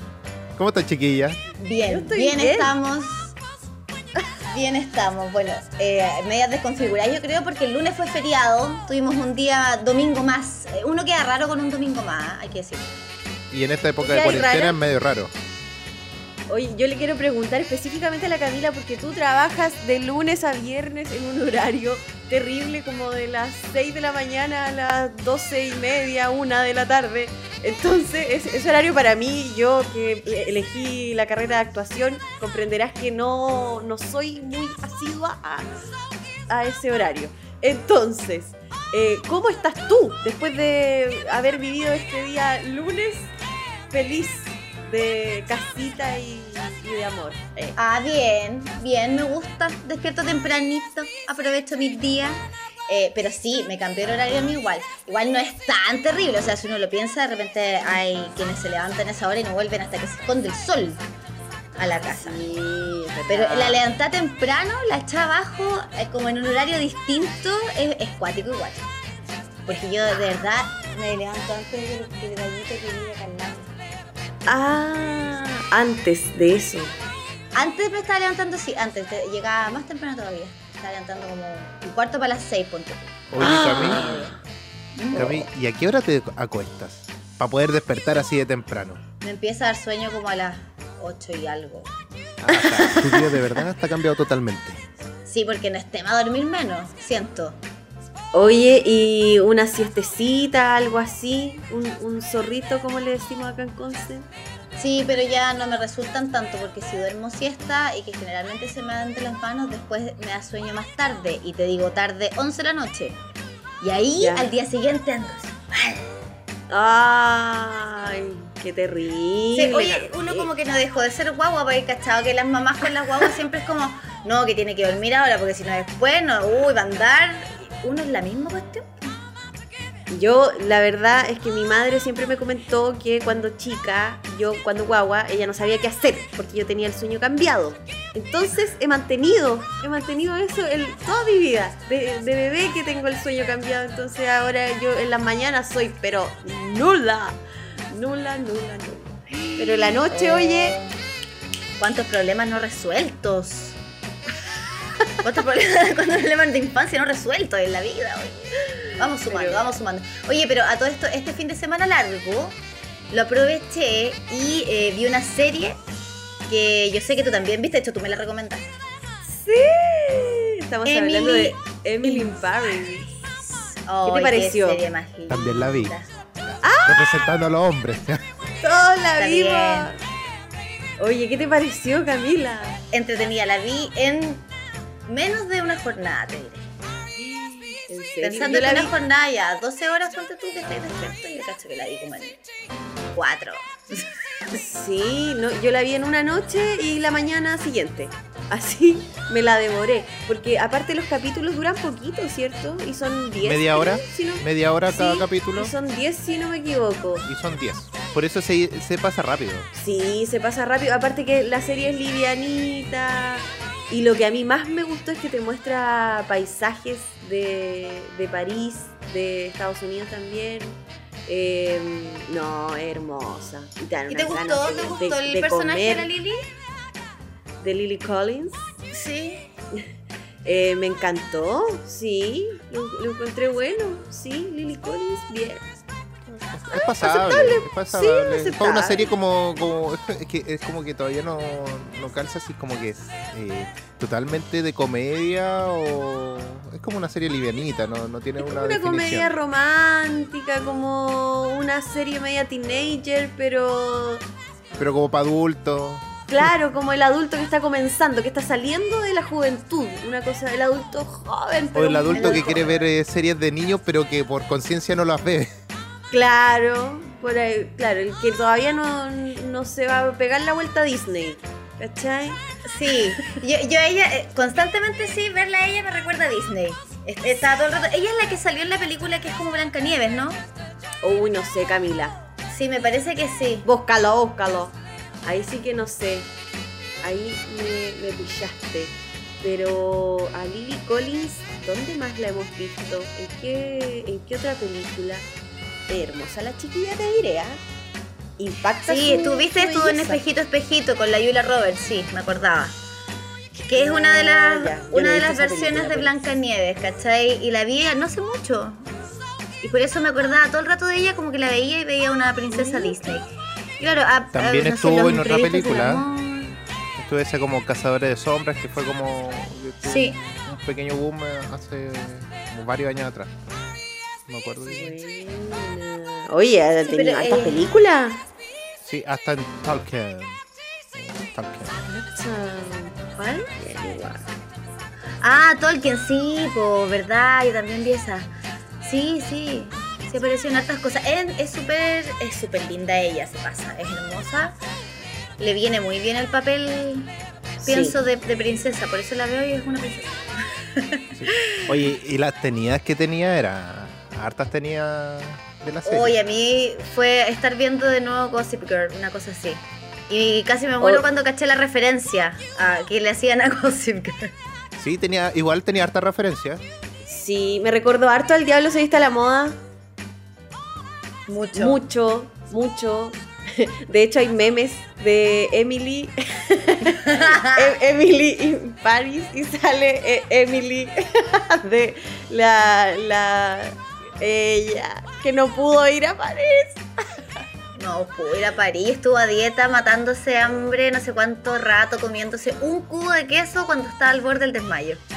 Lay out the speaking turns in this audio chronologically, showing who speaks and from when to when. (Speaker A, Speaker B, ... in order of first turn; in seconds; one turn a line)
Speaker A: 0.6-1.4
Speaker B: 1.6-3.4
Speaker C: 1.9-2.7
Speaker B: 4.5-12.9
Speaker A: 13.5-15.3
Speaker C: 14.0-14.8
Speaker C: 16.5-35.7
Speaker C: 36.5-43.3
Speaker C: 43.9-47.8
Speaker B: 47.8-61.0
Speaker B: 61.8-62.4
Speaker C: 61.9-63.9
Speaker B: 63.3-68.9
Speaker B: 69.7-73.7
Speaker C: 74.5-77.0
Speaker B: 77.5-84.4
Speaker A: 83.3-84.1
Speaker C: 83.4-84.3
Speaker B: 85.0-85.5
Speaker A: 85.1-89.0
Speaker B: 89.2-91.9
Speaker A: 92.4-94.8
Speaker C: 92.5-93.4
Speaker B: 95.3-97.6
Speaker C: 98.3-104.3
Speaker B: 104.8-113.2
Speaker B: 113.8-116.1
Speaker C: 114.2-114.5
Speaker C: 116.7-120.5
Speaker B: 119.5-129.2
Speaker C: 130.1-147.4
Speaker C: 147.9-150.8
Speaker B: 149.6-151.0
Speaker B: 151.8-153.8
Speaker B: 155.2-162.6
Speaker C: 159.3-159.7
Speaker B: 163.1-165.8
Speaker B: 166.5-168.7
Speaker C: 169.2-173.2
Speaker B: 170.8-172.8
Speaker B: 173.8-176.1
Speaker C: 174.1-174.8
Speaker A: 175.3-175.9
Speaker A: 176.5-178.2
Speaker C: 176.6-177.3
Speaker C: 178.6-180.0
Speaker B: 179.2-179.9
Speaker C: 181.0-182.8
Speaker B: 182.9-184.5
Speaker B: 185.1-186.7
Speaker C: 187.2-188.9
Speaker B: 188.2-192.4
Speaker B: 193.1-194.6
Speaker C: 194.6-207.3
Speaker A: 203.4-205.7
Speaker A: 207.2-209.7
Speaker C: 209.7-226.1
Speaker B: 224.1-226.4
Speaker C: 227.6-228.7
Speaker B: 228.9-229.5
Speaker C: 230.4-235.7
Speaker C: 236.3-239.1
Speaker A: 236.5-249.3
Speaker C: 248.4-254.2
Speaker A: 254.8-256.5
Speaker C: 256.3-262.9
Speaker A: 261.8-265.5
Speaker B: 262.1-262.8
Speaker C: 266.1-272.4
Speaker B: 272.6-280.4
Speaker C: 281.0-282.2
Speaker B: 282.5-283.7
Speaker C: 283.6-286.3
Speaker C: 287.0-295.3
Speaker C: 295.9-297.6
Speaker C: 298.4-300.2
Speaker B: 298.9-302.8
Speaker B: 303.6-308.9
Speaker C: 303.8-306.2
Speaker B: 309.6-316.6
Speaker C: 312.5-313.1
Speaker A: 314.3-316.0
Speaker A: 317.0-323.4
Speaker B: 319.8-320.2
Speaker A: 324.3-325.0
Speaker C: 324.7-328.2
Speaker B: 326.9-327.7
Speaker A: 328.9-330.4
Speaker A: 330.9-331.7
Speaker C: 331.9-334.3
Speaker B: 335.2-338.3
Speaker B: 338.8-344.6
Speaker B: 345.4-351.7
Speaker C: 347.6-348.0
Speaker A: 351.1-356.2
Speaker B: 355.9-364.3
Speaker A: 364.8-366.6
Speaker C: 367.1-369.6
Speaker B: 371.3-371.8
Speaker C: 371.6-386.8
Speaker B: 377.0-377.7
Speaker B: 387.8-395.0